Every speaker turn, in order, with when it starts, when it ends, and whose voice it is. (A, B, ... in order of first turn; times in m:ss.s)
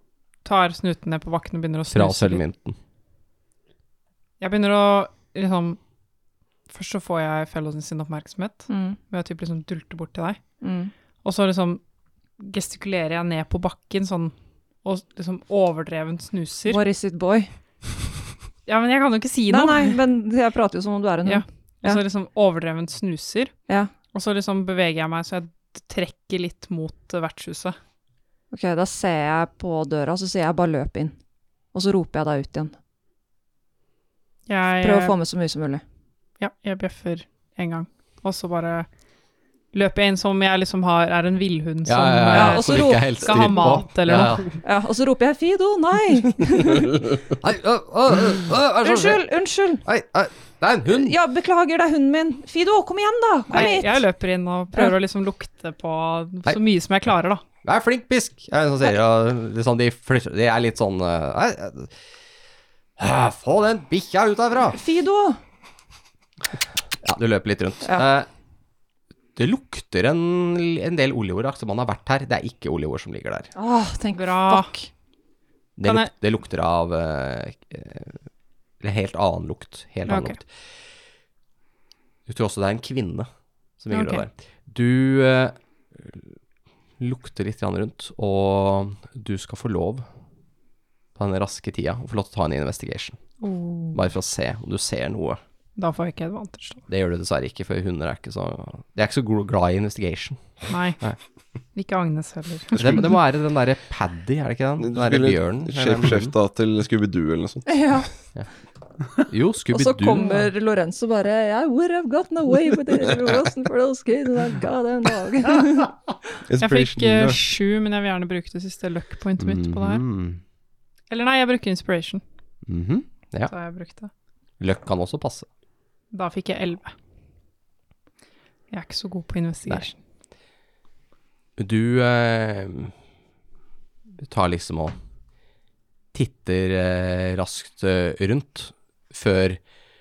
0:00.4-0:02.4 A
0:01.9-0:02.8 B
0:04.4-0:05.8 A
0:06.7-0:10.4 A
0:08.7-0:09.0 C
0:10.6-0:10.9 C
0:11.2-0:11.8 A
0:12.4-0:16.8 A
0:16.7-0:17.5 C
0:18.7-0:20.0 A
0:19.5-0:22.0 C
0:21.2-0:23.5 A
0:24.1-0:27.8 A
0:28.5-0:31.2 C
0:31.7-0:32.7 C
0:34.5-0:35.2 A
0:34.8-0:35.8 C
0:36.4-0:38.9 A
0:39.7-0:44.6 A
0:41.9-0:44.5 B
0:42.3-0:43.6 C
0:44.6-0:47.1 C
0:47.3-0:49.2 B
0:48.8-0:49.8 C
0:49.8-0:51.2 B
0:50.9-0:54.0 C
0:53.5-0:57.4 A
0:57.6-1:01.9 B
1:03.0-1:04.8 B
1:04.7-1:05.4 C
1:07.0-1:08.3 B
1:09.4-1:13.5 B
1:13.6-1:14.9 C
1:14.2-1:14.7 A
1:15.8-1:18.2 B
1:18.8-1:20.5 B
1:20.1-1:20.4 A
1:22.3-1:23.3 B
1:23.8-1:26.3 B
1:23.9-1:24.2 A
1:27.0-1:30.0 B
1:31.2-1:33.2 B
1:33.4-1:34.0 A
1:33.9-1:35.4 B
1:35.8-1:36.8 A
1:36.9-1:41.2 B
1:40.7-1:41.0 A
1:41.7-1:43.0 A
1:42.7-1:46.3 B
1:44.8-1:47.8 D
1:47.7-1:48.1 C
1:49.2-1:50.5 B
1:49.7-1:56.0 C
1:56.5-1:57.4 D
1:56.6-2:00.0 A
1:59.4-2:00.4 B
2:01.1-2:02.2 A
2:02.7-2:03.5 B
2:03.5-2:04.1 A
2:04.6-2:05.5 B
2:06.1-2:06.9 A
2:08.7-2:10.0 A
2:11.6-2:12.9 B
2:14.2-2:15.0 B
2:16.1-2:19.6 B